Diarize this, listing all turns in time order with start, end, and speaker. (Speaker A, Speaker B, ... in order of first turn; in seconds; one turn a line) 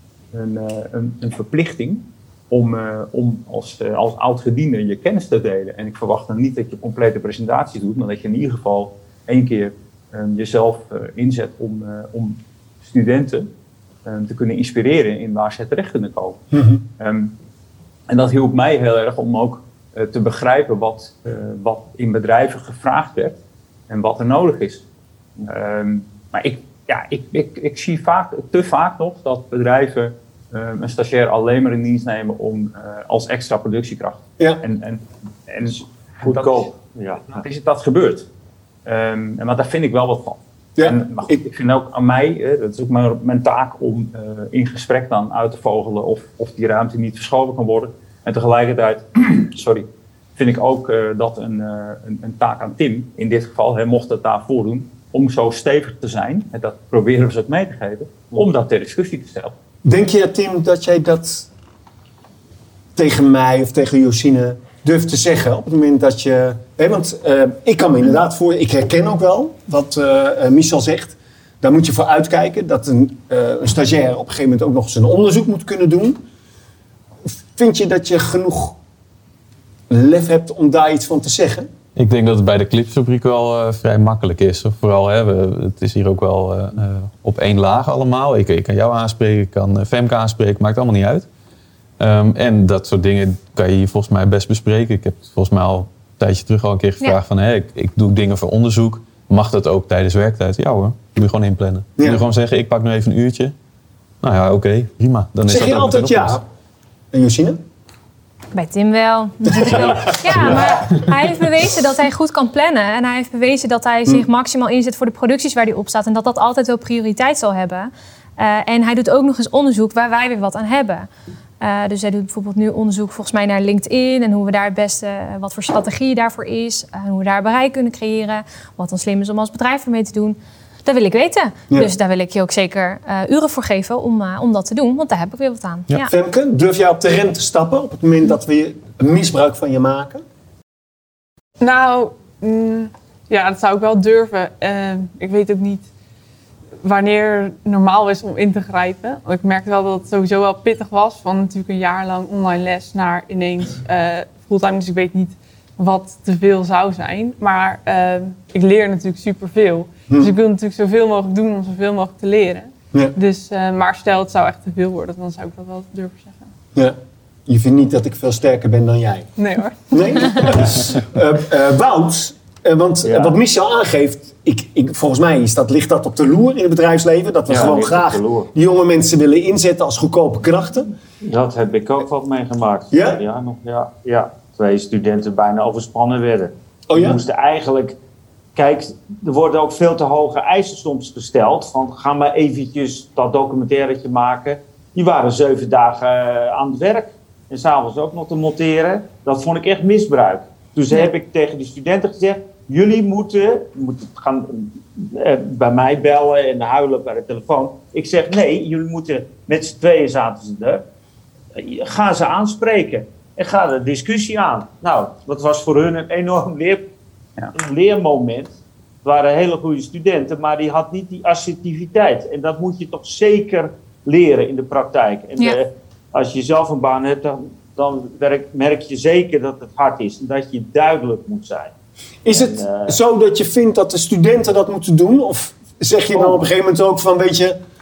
Speaker A: 0.3-13.5
Speaker A: 14.1-16.4
Speaker B: 16.5-16.8
Speaker A: 17.0-17.3
Speaker A: 18.1-23.4
Speaker A: 23.9-24.8
Speaker A: 25.5-36.7
Speaker C: 35.7-37.4
Speaker A: 37.3-38.2
Speaker A: 38.9-59.5
Speaker B: 40.8-41.4
Speaker B: 59.8-61.5
Speaker B: 63.0-76.2
Speaker B: 77.5-78.8
Speaker B: 79.9-81.7
Speaker D: 82.0-91.3
Speaker D: 92.0-103.5
Speaker B: 102.0-102.2
Speaker D: 104.2-106.4
Speaker B: 105.5-106.4
Speaker B: 107.1-107.6
Speaker E: 108.5-121.1
Speaker B: 109.5-111.1
Speaker E: 121.6-136.1
Speaker B: 136.1-140.2
Speaker F: 141.6-145.9
Speaker F: 146.8-166.5
Speaker B: 166.7-169.3
Speaker F: 169.4-170.5
Speaker B: 169.9-180.9
Speaker C: 173.0-173.3
Speaker C: 177.5-178.5
Speaker C: 181.2-188.0
Speaker B: 182.9-183.2
Speaker B: 186.9-187.2
Speaker C: 188.5-210.8
Speaker C: 211.5-216.9
Speaker C: 217.5-231.7
Speaker B: 232.2-237.6
Speaker C: 232.3-233.0
Speaker C: 236.1-236.5